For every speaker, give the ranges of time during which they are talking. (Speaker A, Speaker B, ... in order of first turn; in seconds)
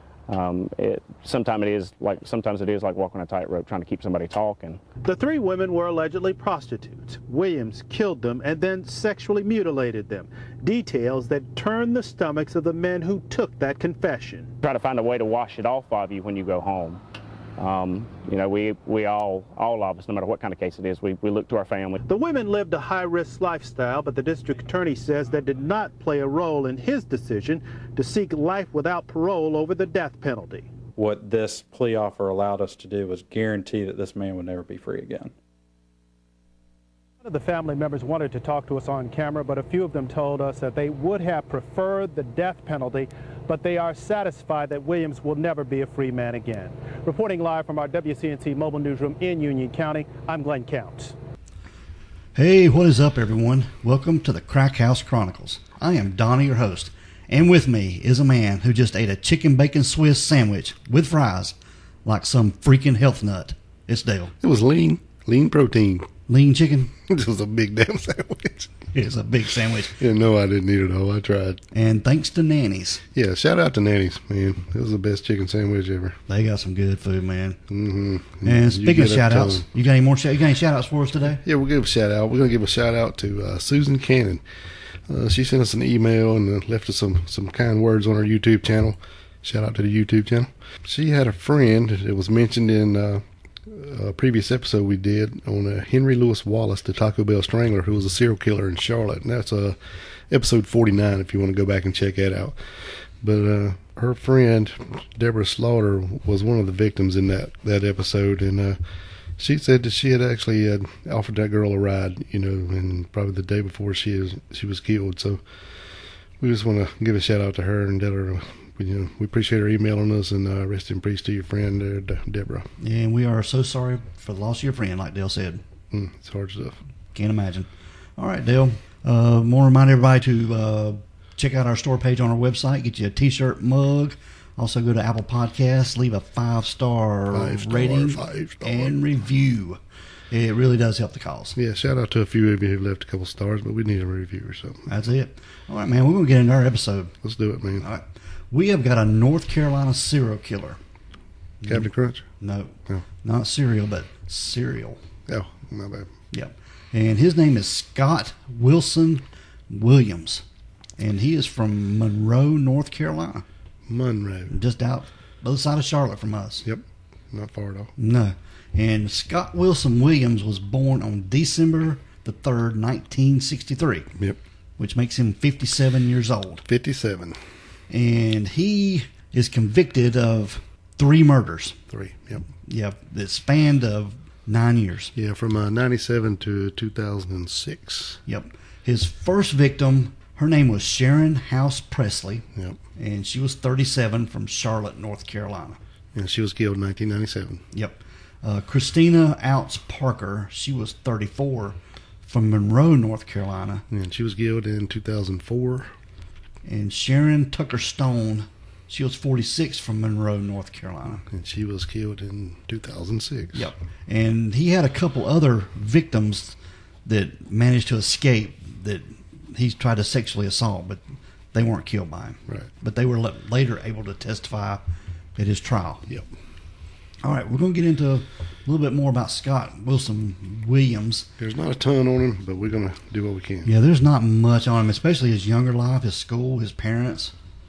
Speaker A: 0.3-4.8, 14.6-17.0, 17.6-22.0
Speaker B: 5.0-14.5, 22.1-30.7, 37.2-51.1
Speaker C: 30.9-35.3
Speaker D: 52.3-64.3, 66.3-66.9, 68.9-70.0, 71.7-73.0, 76.3-77.6, 78.4-81.4, 122.8-125.6, 127.1-141.6, 144.9-147.1, 147.8-150.8, 151.6-151.9, 152.4-155.0, 156.3-160.4, 161.0-163.4, 164.5-166.6, 168.0-174.1, 174.8-176.6, 177.9-181.8, 182.7-185.1, 188.2-192.4, 193.0-195.8, 197.7-203.8, 206.6-211.2, 213.5-224.8, 225.3-226.1, 227.2-231.3, 233.6-237.3
Speaker E: 64.4-66.1, 67.0-68.7, 70.0-71.6, 73.1-76.2, 77.7-79.7, 81.4-84.4, 85.1-99.8, 100.3-108.8, 109.4-115.4, 116.4-122.7, 125.9-126.8, 137.3-138.9, 141.6-144.9, 147.2-147.9, 151.7-152.2, 155.3-156.1, 163.9-164.5, 166.6-167.9, 176.7-177.4, 181.9-182.4, 185.1-188.2, 196.1-197.6, 203.9-205.9, 211.2-213.7, 231.4-233.7